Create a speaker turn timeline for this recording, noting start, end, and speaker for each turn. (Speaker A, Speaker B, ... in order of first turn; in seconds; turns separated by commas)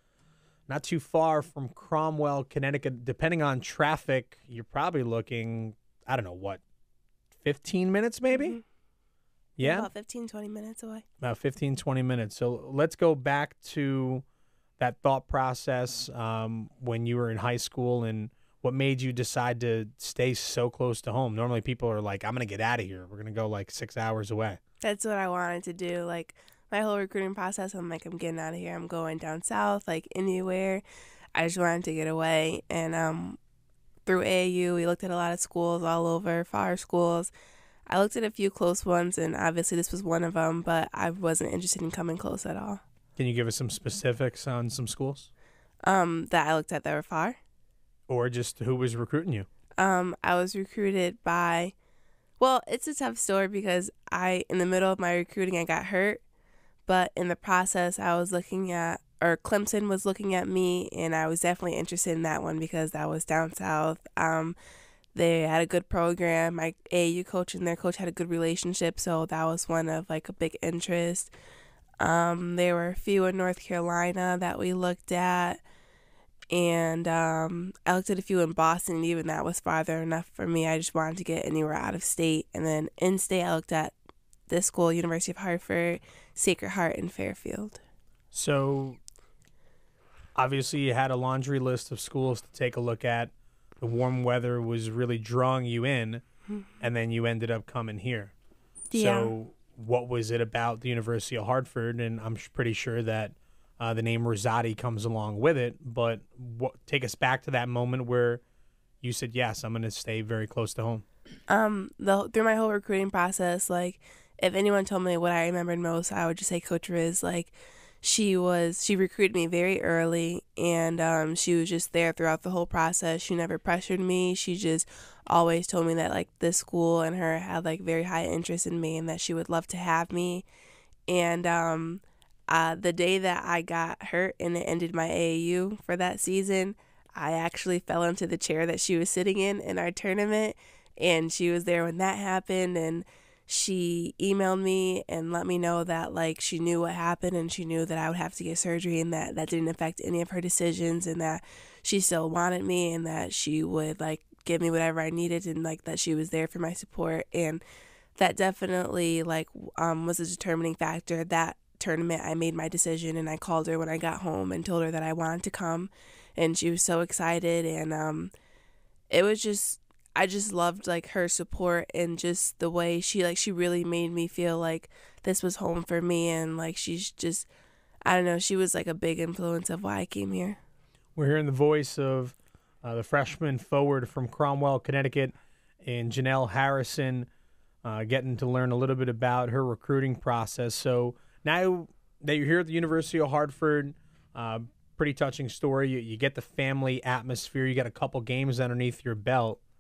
Speaker A: 0.7-6.6, Speaker A: 7.4-8.6, Speaker B: 8.3-8.6, Speaker A: 9.6-9.9, Speaker B: 9.6-11.1, Speaker A: 11.2-14.2, Speaker A: 14.8-24.6, Speaker B: 24.8-30.8, Speaker B: 31.4-33.4, Speaker B: 34.1-37.3, Speaker B: 37.9-42.8, Speaker A: 43.2-45.3, Speaker B: 45.9-47.4, Speaker A: 48.1-49.5, Speaker B: 49.8-51.7, Speaker B: 52.4-56.2, Speaker B: 56.9-64.6, Speaker B: 65.1-71.3, Speaker B: 72.0-75.6, Speaker B: 76.5-84.0, Speaker B: 84.5-87.8, Speaker A: 88.3-89.0, Speaker A: 90.4-96.2, Speaker A: 96.8-98.3, Speaker B: 98.9-99.3, Speaker A: 98.9-108.4, Speaker A: 109.0-111.0, Speaker B: 111.5-130.4, Speaker B: 131.1-157.6, Speaker B: 158.2-168.3, Speaker B: 169.1-177.5, Speaker B: 178.1-180.6, Speaker A: 181.2-187.3, Speaker A: 187.8-199.6